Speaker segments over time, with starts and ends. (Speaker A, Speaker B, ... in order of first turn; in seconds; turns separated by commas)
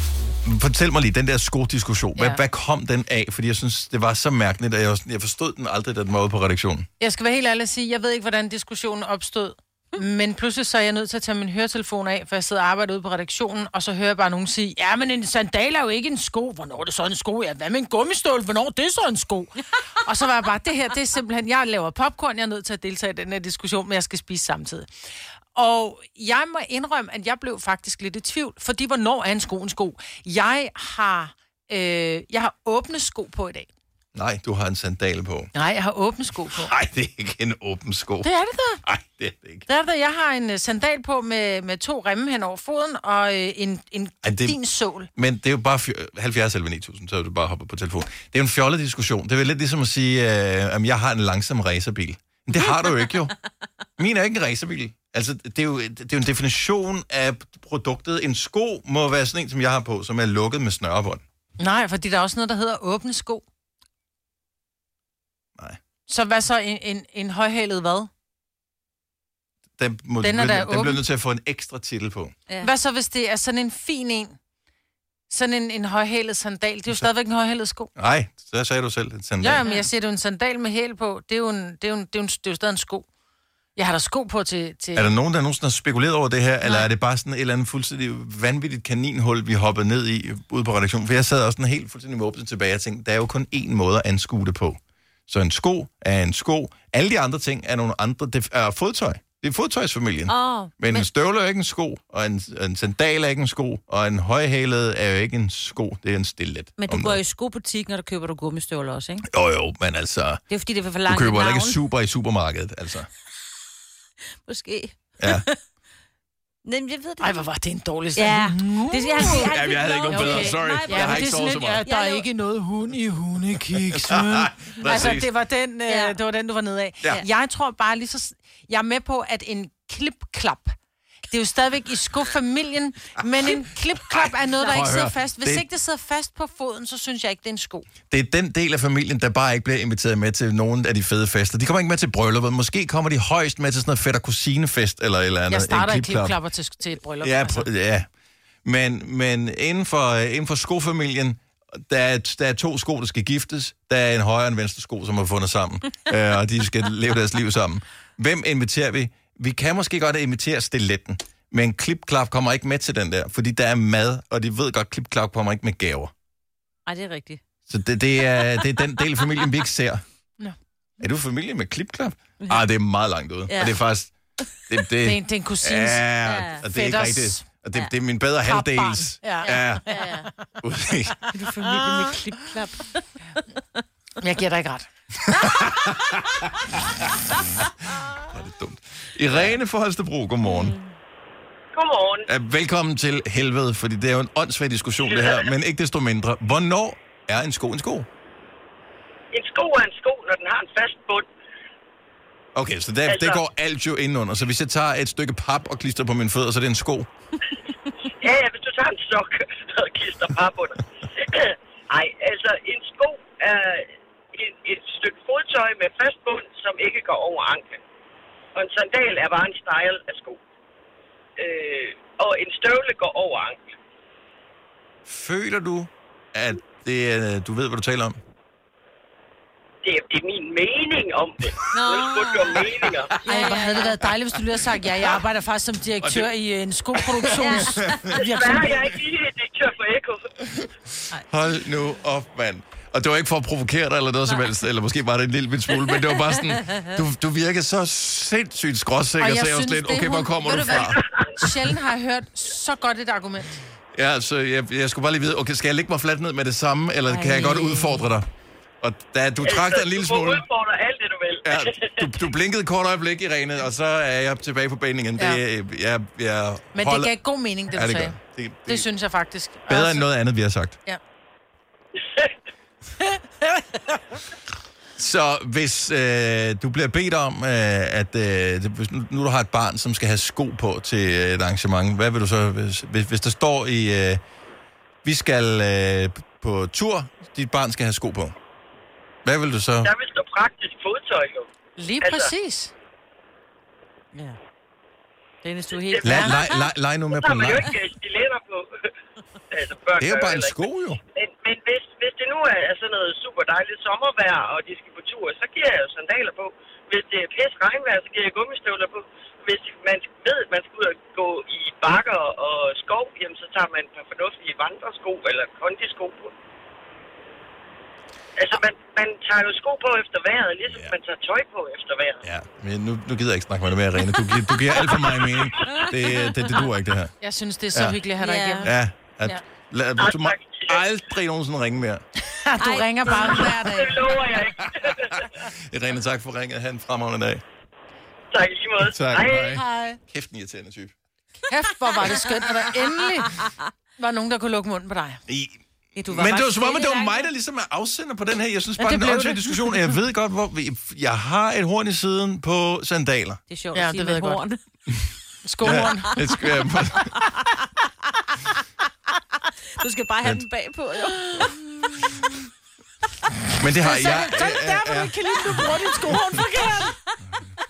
Speaker A: 0.5-6.9, Speaker B: 2.1-2.4, Speaker B: 7.0-24.9, Speaker B: 25.5-33.7, Speaker A: 34.1-35.5, Speaker B: 35.5-36.7, Speaker A: 36.5-38.3, Speaker B: 38.2-38.8, Speaker A: 38.8-39.6, Speaker B: 39.7-45.1, Speaker A: 44.2-44.6, Speaker A: 45.1-53.4, Speaker A: 54.0-61.2, Speaker B: 61.6-63.4, Speaker B: 66.1-68.1, Speaker A: 69.8-72.3, Speaker B: 70.2-71.0, Speaker B: 72.6-74.4, Speaker B: 75.3-77.9, Speaker A: 78.0-79.6, Speaker B: 79.4-83.1, Speaker B: 83.8-85.1, Speaker A: 84.9-107.2, Speaker B: 86.6-86.9, Speaker C: 100.3-101.1, Speaker C: 106.8-109.3, Speaker A: 109.2-110.4, Speaker C: 110.5-111.8, Speaker A: 111.0-113.1, Speaker C: 114.4-115.6, Speaker A: 115.2-115.5, Speaker C: 116.6-117.5, Speaker B: 117.2-119.5, Speaker C: 118.1-122.2, Speaker A: 119.2-121.8, Speaker B: 120.1-137.9, Speaker A: 123.7-125.3, Speaker C: 125.9-126.2, Speaker A: 134.6-135.6, Speaker A: 138.1-146.4, Speaker B: 145.5-147.7, Speaker A: 147.2-148.1, Speaker A: 148.6-166.1, Speaker C: 166.8-167.4, Speaker A: 167.7-170.0, Speaker A: 171.0-174.1, Speaker C: 173.5-173.8, Speaker A: 174.7-179.8, Speaker B: 175.0-176.1, Speaker C: 176.2-176.6, Speaker B: 176.6-177.4, Speaker B: 178.4-180.6, Speaker C: 179.4-180.3, Speaker A: 180.6-181.2, Speaker C: 181.3-183.1, Speaker B: 184.2-184.9, Speaker A: 185.2-187.3, Speaker A: 188.0-190.8, Speaker C: 190.4-190.8, Speaker D: 191.7-192.3, Speaker A: 192.3-198.1, Speaker D: 195.1-195.5, Speaker D: 199.3-201.3, Speaker A: 202.5-207.1, Speaker D: 203.1-203.4, Speaker D: 208.0-217.8, Speaker D: 218.6-220.4, Speaker D: 221.4-223.7, Speaker A: 225.1-228.2, Speaker D: 229.8-233.2, Speaker C: 231.7-234.0, Speaker B: 233.2-238.8, Speaker A: 236.0-236.3, Speaker A: 236.9-238.1, Speaker C: 237.3-238.2, Speaker D: 238.1-240.3, Speaker A: 241.3-251.0, Speaker B: 249.2-253.6, Speaker D: 250.7-251.4, Speaker A: 253.9-258.2, Speaker C: 257.1-258.0, Speaker A: 258.8-260.4, Speaker D: 259.4-262.1, Speaker A: 261.4-267.1, Speaker B: 266.7-270.1, Speaker A: 267.7-268.9, Speaker A: 269.7-270.8, Speaker A: 274.9-284.2, Speaker A: 285.0-288.3, Speaker A: 289.2-289.9, Speaker D: 289.8-291.5, Speaker B: 291.8-292.7, Speaker D: 292.0-292.3, Speaker C: 295.4-296.7, Speaker D: 295.8-296.5, Speaker A: 296.0-297.7, Speaker D: 297.1-298.9, Speaker D: 299.5-300.6, Speaker A: 300.0-301.0, Speaker D: 301.1-316.3, Speaker D: 318.4-322.2, Speaker A: 320.7-320.9, Speaker A: 322.2-327.1, Speaker D: 324.9-325.8, Speaker C: 325.7-326.3, Speaker B: 327.2-329.4, Speaker A: 327.7-328.0, Speaker C: 328.2-328.7, Speaker A: 328.6-332.0, Speaker D: 330.0-330.8, Speaker B: 332.2-334.0, Speaker C: 332.6-333.7, Speaker D: 333.6-335.3, Speaker A: 335.1-337.4, Speaker D: 338.3-339.6, Speaker A: 338.8-340.9, Speaker B: 339.5-340.0, Speaker B: 341.5-343.4, Speaker C: 342.1-342.4, Speaker B: 344.0-345.2, Speaker A: 345.3-353.4, Speaker C: 345.9-347.3, Speaker B: 348.8-349.6, Speaker C: 353.5-354.6, Speaker B: 353.7-354.4, Speaker B: 355.4-356.2, Speaker A: 355.6-357.2, Speaker C: 355.8-356.3, Speaker C: 357.0-357.6, Speaker C: 359.8-361.6, Speaker A: 363.6-365.7, Speaker B: 363.8-367.0